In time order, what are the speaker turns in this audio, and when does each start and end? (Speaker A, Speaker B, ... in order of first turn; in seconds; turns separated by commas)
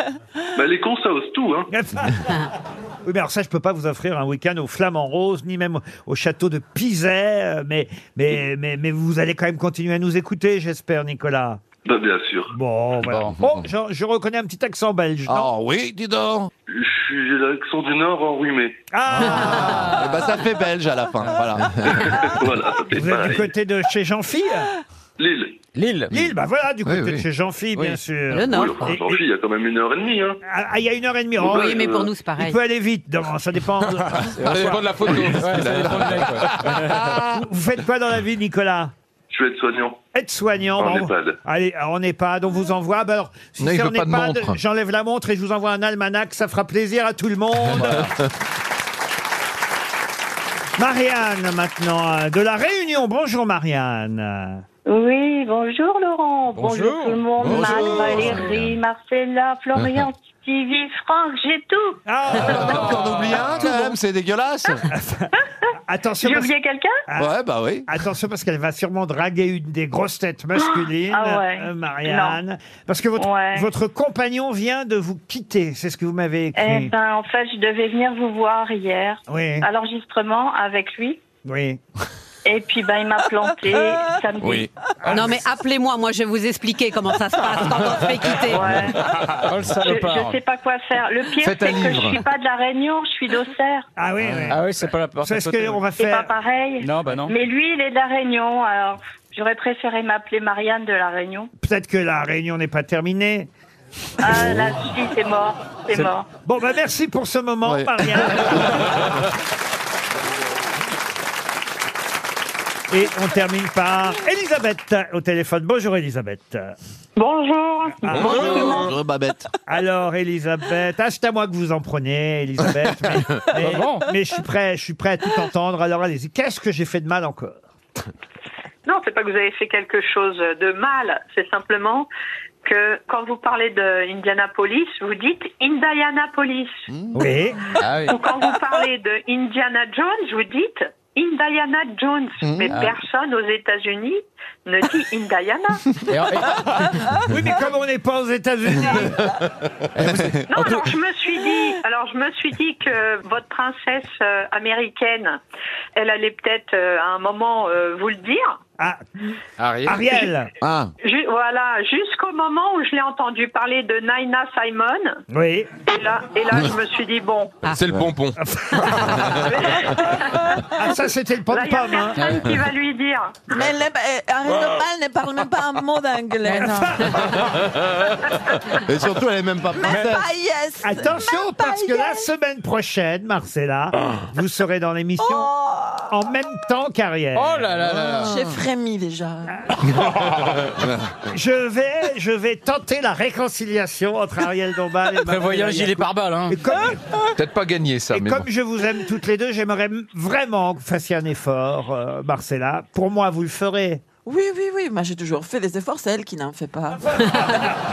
Speaker A: 0.6-1.7, Speaker B: 1.7-2.3, Speaker B: 3.0-11.6, Speaker A: 11.8-12.5, Speaker B: 12.5-15.5, Speaker C: 13.0-13.4, Speaker D: 15.3-16.5, Speaker A: 16.7-18.8, Speaker B: 18.9-20.0, Speaker D: 19.1-22.2, Speaker A: 21.9-23.5, Speaker B: 22.9-24.8, Speaker A: 25.2-25.6, Speaker C: 25.8-26.1, Speaker B: 26.1-29.2, Speaker D: 26.9-27.2, Speaker E: 28.3-28.9, Speaker A: 28.4-30.4, Speaker B: 30.5-31.6, Speaker A: 31.4-32.1, Speaker E: 31.5-32.6, Speaker B: 32.4-35.6, Speaker F: 34.2-36.8, Speaker C: 35.3-37.1, Speaker B: 36.8-38.9, Speaker A: 39.3-40.0, Speaker B: 40.1-48.1, Speaker A: 40.8-41.4, Speaker F: 43.6-44.6, Speaker C: 47.8-48.1, Speaker B: 50.8-54.6, Speaker G: 54.9-62.0, Speaker C: 56.6-57.7, Speaker D: 57.4-58.7, Speaker B: 58.0-58.2, Speaker D: 59.8-60.1, Speaker B: 62.1-64.0, Speaker D: 62.3-64.8, Speaker B: 64.9-65.3, Speaker B: 65.9-66.5, Speaker G: 66.2-67.0, Speaker B: 67.1-76.9, Speaker D: 67.2-67.9, Speaker G: 70.6-72.4, Speaker G: 73.2-73.7, Speaker G: 76.5-81.2, Speaker B: 79.3-79.7, Speaker B: 81.5-81.8, Speaker G: 82.5-84.7, Speaker B: 85.0-85.5, Speaker E: 85.1-88.7, Speaker G: 88.5-89.0, Speaker C: 89.5-90.4, Speaker G: 89.8-93.9, Speaker F: 91.7-92.0, Speaker B: 94.0-94.7, Speaker C: 94.4-95.8, Speaker B: 95.2-96.3, Speaker G: 96.0-101.5, Speaker C: 96.8-97.3, Speaker B: 101.6-103.5, Speaker G: 104.2-106.3, Speaker B: 106.5-109.2, Speaker D: 107.7-108.6, Speaker B: 112.9-116.8, Speaker H: 117.2-118.9, Speaker B: 118.0-119.0, Speaker D: 118.7-119.5, Speaker B: 119.7-127.6, Speaker C: 123.6-124.1, Speaker H: 128.9-132.1, Speaker H: 132.7-136.7, Speaker B: 137.2-137.8, Speaker C: 137.8-138.2, Speaker H: 138.0-145.9, Speaker C: 142.7-143.0, Speaker C: 146.1-147.0, Speaker B: 147.2-149.3, Speaker C: 150.0-150.9, Speaker H: 150.5-155.4, Speaker H: 156.0-158.6, Speaker B: 158.8-160.5, Speaker F: 159.6-160.0, Speaker D: 160.6-160.9, Speaker H: 161.0-165.2, Speaker B: 165.3-165.7, Speaker H: 165.8-167.6, Speaker F: 167.7-169.5, Speaker B: 168.4-169.3, Speaker H: 169.5-170.6, Speaker B: 170.5-172.3, Speaker H: 171.5-173.6, Speaker C: 172.2-172.5, Speaker I: 173.5-177.3, Speaker B: 176.5-177.4, Speaker D: 178.9-180.3, Speaker I: 179.8-182.3, Speaker B: 180.8-187.9, Speaker I: 185.2-186.0, Speaker C: 187.3-188.4, Speaker I: 188.0-189.7, Speaker B: 189.7-190.2, Speaker F: 190.0-190.4, Speaker B: 191.3-197.0, Speaker C: 195.2-196.7, Speaker F: 197.4-198.5, Speaker B: 198.1-204.0, Speaker I: 204.3-207.6